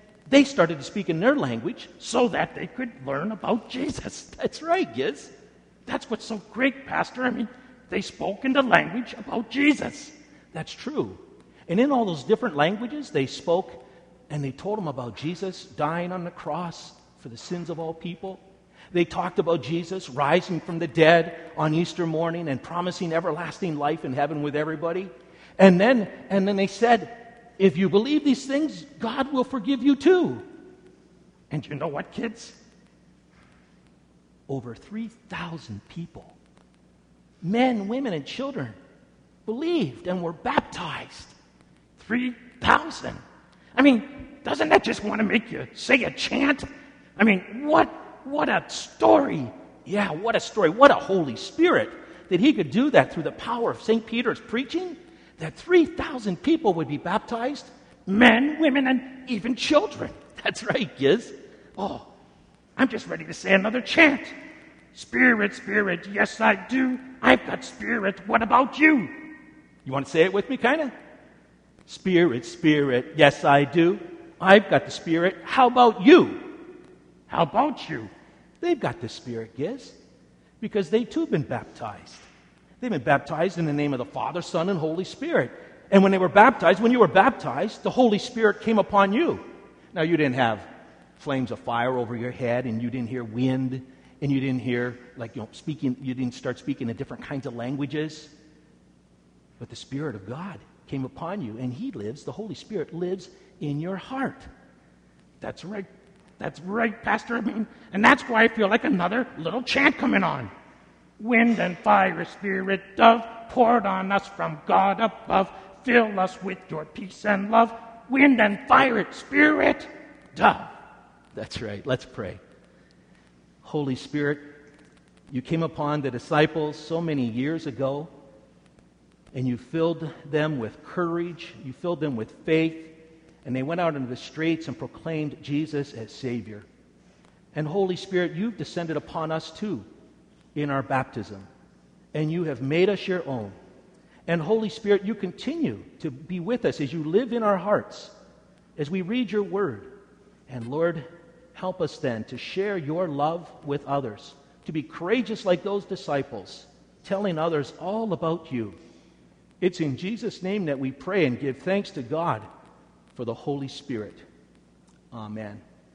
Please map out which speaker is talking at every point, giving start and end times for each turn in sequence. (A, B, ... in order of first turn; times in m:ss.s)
0:00.3-0:02.1 A
0:02.1-0:04.3 B
0:04.2-0:05.3 A
0:05.9-0:10.1 B
0:10.5-0:30.4 A
0:31.5-0:32.6 B
0:34.5-0:36.4 A
0:37.4-0:38.8 A
0:39.4-0:41.3 A
0:42.0-0:42.9 B
0:42.5-0:43.2 A
0:43.8-0:46.6 B
0:47.2-0:49.5 B
0:49.8-0:57.7 A
0:58.1-1:00.1 B
1:00.1-1:01.3 A
1:01.8-1:02.1 B
1:02.8-1:04.3 B
1:04.9-1:09.2 B
1:09.8-1:10.9 A
1:11.9-1:16.5 A
1:17.3-1:18.1 B
1:18.6-1:19.9 A
1:20.6-1:22.2 A
1:22.8-1:30.6 A
1:31.2-1:38.3 A
1:39.6-1:44.5 A
1:45.4-1:45.9 B
1:46.4-1:50.5 B
1:51.2-2:00.7 B
2:01.3-2:02.4 A
2:03.6-2:04.5 A
2:05.3-2:08.1 A
2:09.3-2:16.7 A
2:17.5-2:19.8 A
2:20.5-2:21.5 A
2:22.1-2:23.6 A
2:24.3-2:28.1 A
2:28.8-2:29.9 A
2:30.5-2:38.8 A
2:39.6-2:42.4 A
2:43.1-2:44.2 A
2:45.1-2:45.6 A